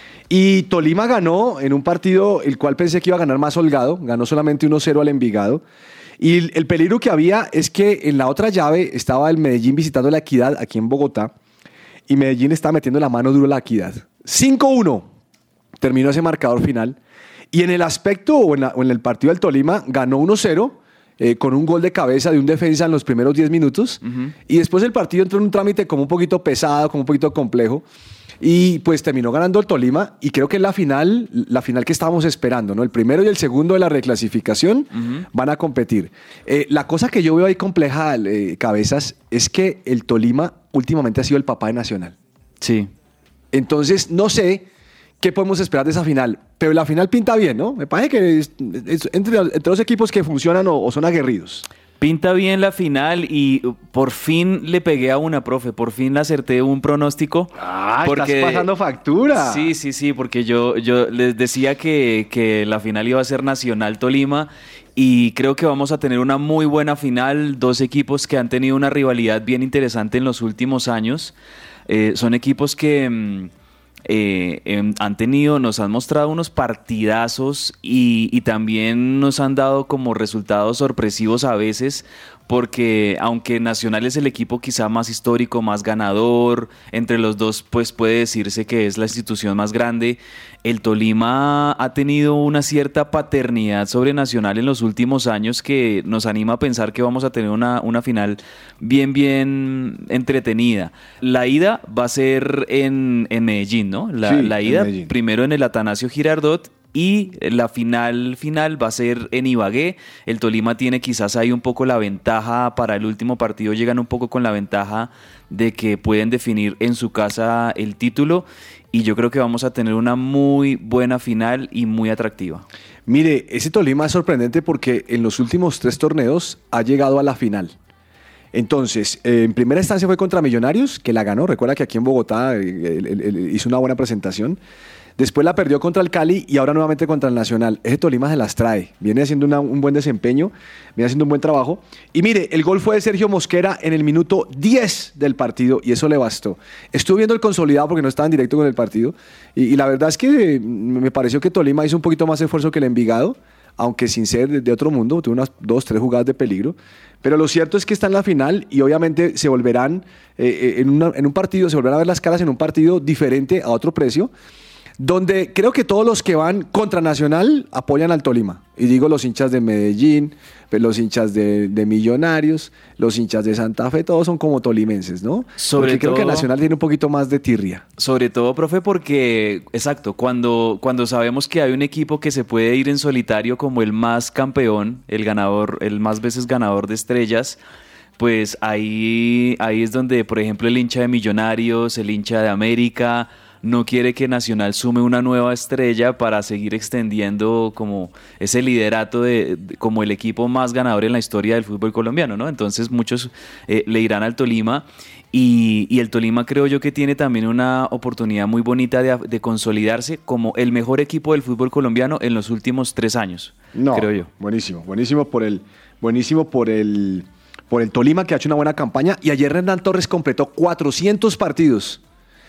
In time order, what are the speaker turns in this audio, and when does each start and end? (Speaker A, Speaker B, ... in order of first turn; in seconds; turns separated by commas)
Speaker A: 0.3-5.6, Speaker A: 6.2-11.3, Speaker A: 12.1-15.1, Speaker A: 15.8-17.0, Speaker A: 17.5-27.9, Speaker B: 24.0-24.3, Speaker A: 28.4-42.2, Speaker B: 34.9-35.2, Speaker B: 42.6-42.9, Speaker A: 43.5-44.7, Speaker A: 45.2-51.6, Speaker B: 52.0-58.7, Speaker A: 57.6-59.7, Speaker B: 59.3-71.3, Speaker B: 71.9-73.5, Speaker B: 74.1-122.7, Speaker A: 104.2-105.1, Speaker A: 123.1-127.8, Speaker A: 128.5-134.6, Speaker A: 135.2-164.3, Speaker A: 165.0-177.8, Speaker B: 175.6-176.5, Speaker B: 178.0-187.6, Speaker B: 188.2-214.3, Speaker A: 213.7-222.0